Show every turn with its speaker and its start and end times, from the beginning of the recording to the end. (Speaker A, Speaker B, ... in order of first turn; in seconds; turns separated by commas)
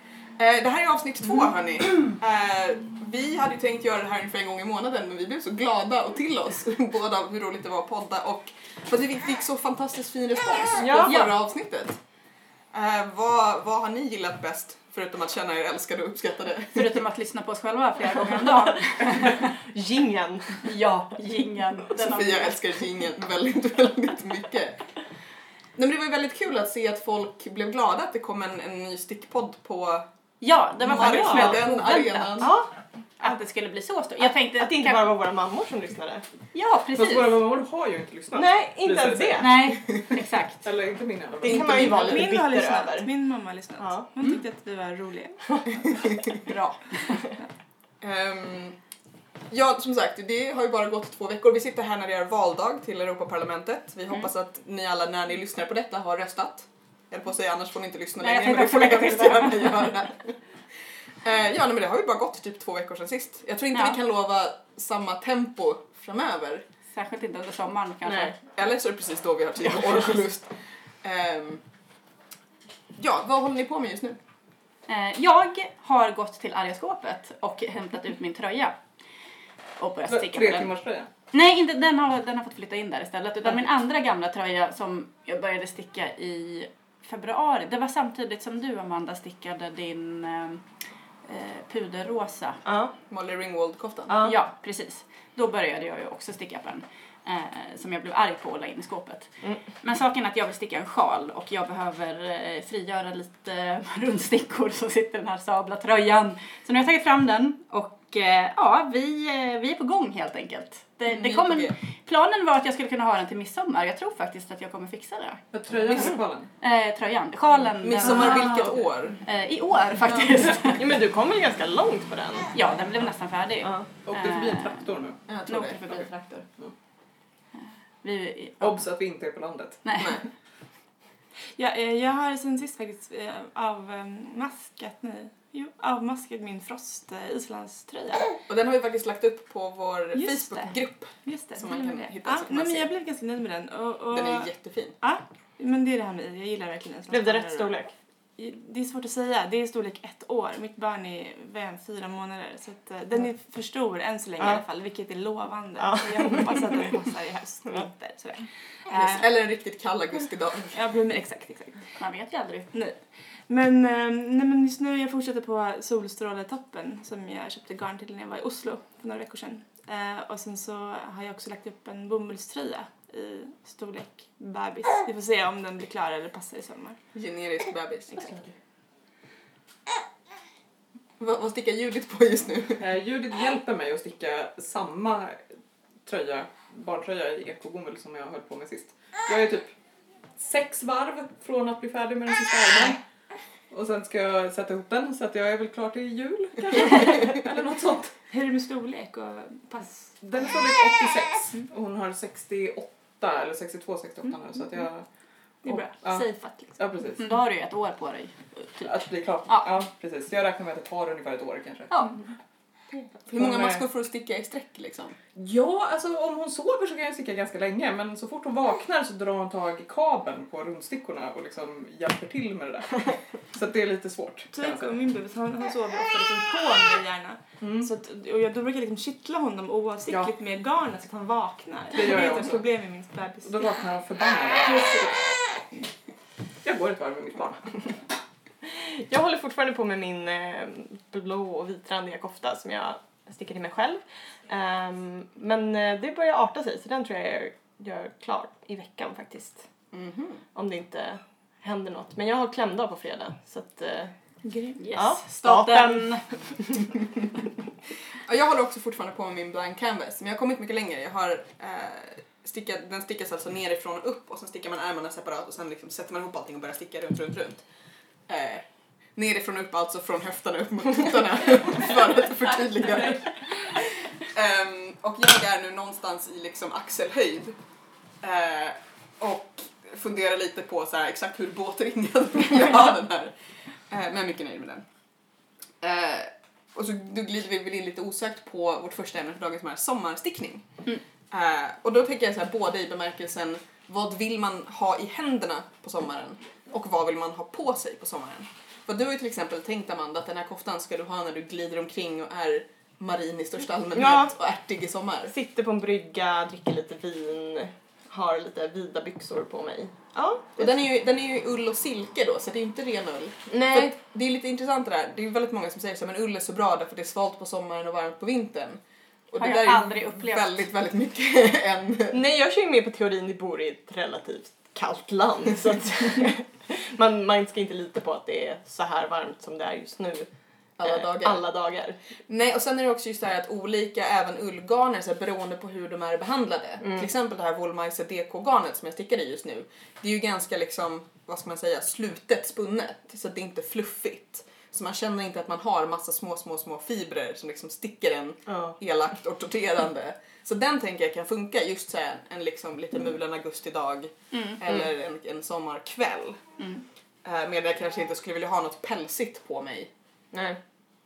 Speaker A: 0.4-12.0, Speaker B: 10.8-11.2, Speaker C: 11.1-11.3, Speaker A: 12.7-17.0, Speaker C: 16.7-19.5, Speaker D: 18.3-18.6, Speaker B: 19.3-20.7, Speaker C: 20.6-22.6, Speaker A: 21.9-24.8, Speaker A: 25.8-30.1, Speaker C: 30.4-32.6, Speaker A: 30.8-32.5, Speaker B: 31.0-31.6, Speaker B: 32.4-32.7, Speaker C: 33.2-35.1, Speaker B: 34.2-36.2, Speaker C: 36.5-37.4, Speaker E: 37.0-39.5, Speaker B: 38.3-39.7, Speaker C: 39.4-40.6, Speaker E: 40.6-42.1, Speaker B: 41.4-43.1, Speaker A: 41.5-42.1, Speaker D: 41.9-46.1, Speaker B: 43.8-44.0, Speaker C: 46.5-47.0, Speaker A: 48.0-48.8, Speaker A: 49.5-60.4, Speaker C: 58.2-60.0, Speaker A: 61.2-66.7, Speaker C: 66.9-68.3, Speaker B: 68.1-68.3, Speaker A: 68.5-71.6, Speaker A: 73.0-74.2, Speaker C: 74.9-78.8, Speaker C: 79.8-80.7, Speaker E: 80.1-81.1, Speaker C: 81.3-90.6, Speaker C: 91.2-92.6, Speaker B: 92.7-92.9, Speaker A: 93.1-94.2, Speaker B: 94.1-94.4, Speaker C: 94.2-116.1, Speaker A: 111.1-111.8, Speaker E: 115.5-116.5, Speaker C: 116.6-120.8, Speaker A: 117.8-119.2, Speaker A: 120.0-120.8, Speaker B: 120.8-122.5, Speaker C: 122.5-124.9, Speaker B: 123.6-123.9, Speaker E: 124.0-125.2, Speaker A: 125.3-126.1, Speaker C: 125.5-126.5, Speaker C: 127.6-128.8, Speaker E: 128.6-130.1, Speaker C: 129.8-130.2, Speaker D: 131.6-138.4, Speaker A: 138.5-142.9, Speaker D: 140.2-147.8, Speaker A: 144.1-144.9, Speaker B: 147.1-147.9, Speaker D: 148.4-159.2, Speaker B: 155.8-156.9, Speaker A: 158.9-160.8, Speaker D: 160.7-161.9, Speaker C: 162.0-162.7, Speaker D: 162.7-177.0, Speaker A: 177.1-178.3, Speaker A: 181.2-182.8, Speaker E: 182.8-185.4, Speaker E: 186.1-189.7, Speaker E: 190.4-193.0, Speaker E: 193.7-198.2, Speaker D: 198.3-200.1, Speaker E: 200.2-205.1, Speaker D: 205.6-206.8, Speaker E: 205.7-207.3, Speaker C: 207.2-208.9, Speaker E: 208.8-211.9, Speaker C: 211.9-212.2, Speaker A: 213.3-215.2, Speaker E: 215.3-225.0, Speaker D: 224.5-233.8, Speaker E: 227.6-227.9, Speaker E: 231.9-232.7, Speaker E: 233.4-235.4, Speaker D: 234.7-235.1, Speaker E: 236.6-238.0, Speaker B: 238.6-249.7, Speaker A: 249.9-250.4, Speaker B: 250.6-254.1, Speaker D: 254.4-254.8, Speaker C: 254.8-256.3, Speaker B: 254.9-256.9, Speaker A: 258.2-267.6, Speaker A: 268.3-277.6, Speaker A: 278.2-283.3, Speaker A: 283.9-284.9, Speaker A: 285.8-290.7, Speaker A: 291.3-305.3, Speaker B: 303.9-304.3, Speaker B: 305.3-310.7, Speaker A: 310.6-322.2, Speaker B: 313.5-313.9, Speaker C: 319.4-320.6, Speaker B: 322.1-330.3, Speaker A: 330.8-331.4, Speaker B: 330.8-332.0, Speaker A: 332.3-356.4, Speaker B: 336.8-337.1, Speaker B: 348.5-348.8, Speaker C: 354.3-354.6, Speaker C: 356.6-356.8, Speaker A: 357.2-359.9, Speaker B: 360.3-360.6